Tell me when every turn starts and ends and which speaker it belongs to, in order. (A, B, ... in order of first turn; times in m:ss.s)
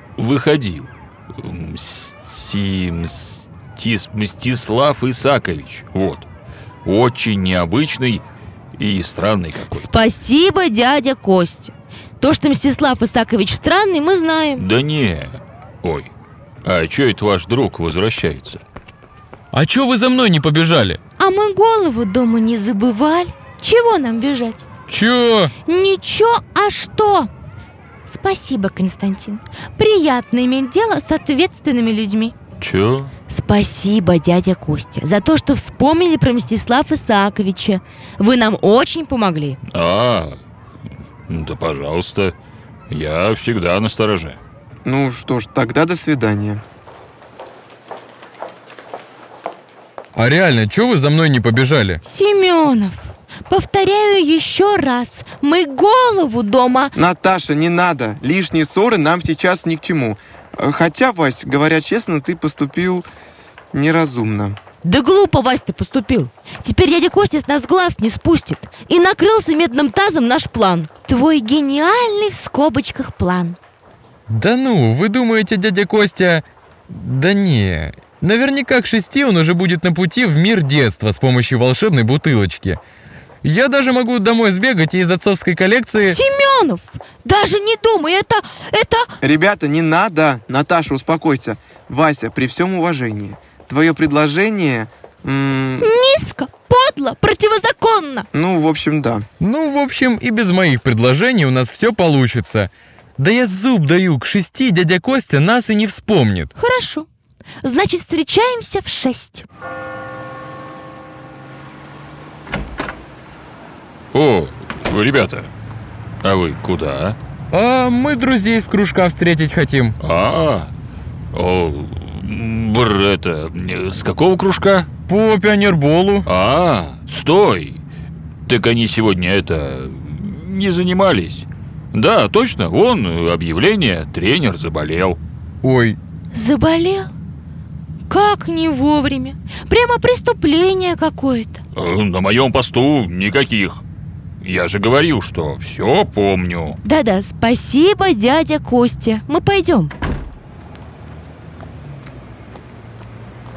0:00.2-0:06.3 A
0:06.8-0:09.9 A
0:09.7-0:14.6 B
0:14.6-0:16.1 A
0:16.6-0:18.6 A
0:19.5-0:21.0 C
0:21.2-0:24.6 B
0:24.9-0:25.5 C
0:25.7-0:27.3 B
0:28.1-0:32.4 B
0:32.6-0:33.1 A
0:33.3-0:39.6 B
0:39.7-0:40.4 A
0:41.3-0:42.4 A
0:42.9-0:44.4 A
0:44.8-0:46.6 D
0:50.2-0:52.0 C
0:52.0-0:56.9 B
0:57.0-1:03.1 D
1:03.7-1:04.6 D
1:04.8-1:13.6 B
1:14.3-1:22.8 C
1:23.4-1:26.2 C
1:26.0-1:29.1 B
1:29.2-1:35.9 D
1:35.8-1:38.3 B
1:38.3-1:39.3 D
1:39.4-1:46.5 C
1:46.6-1:47.1 B
1:47.6-1:49.5 B
1:54.1-1:55.5 A
1:56.2-1:57.2 A
1:57.5-2:00.0 C
2:00.0-2:00.7 A
2:01.3-2:04.9 A
2:05.1-2:06.3 C
2:06.3-2:07.8 A
2:08.5-2:15.2 A
2:15.6-2:16.0 C
2:16.3-2:17.1 B
2:18.1-2:21.6 B
2:21.7-2:23.8 A
2:24.4-2:26.8 A
2:26.8-2:29.9 B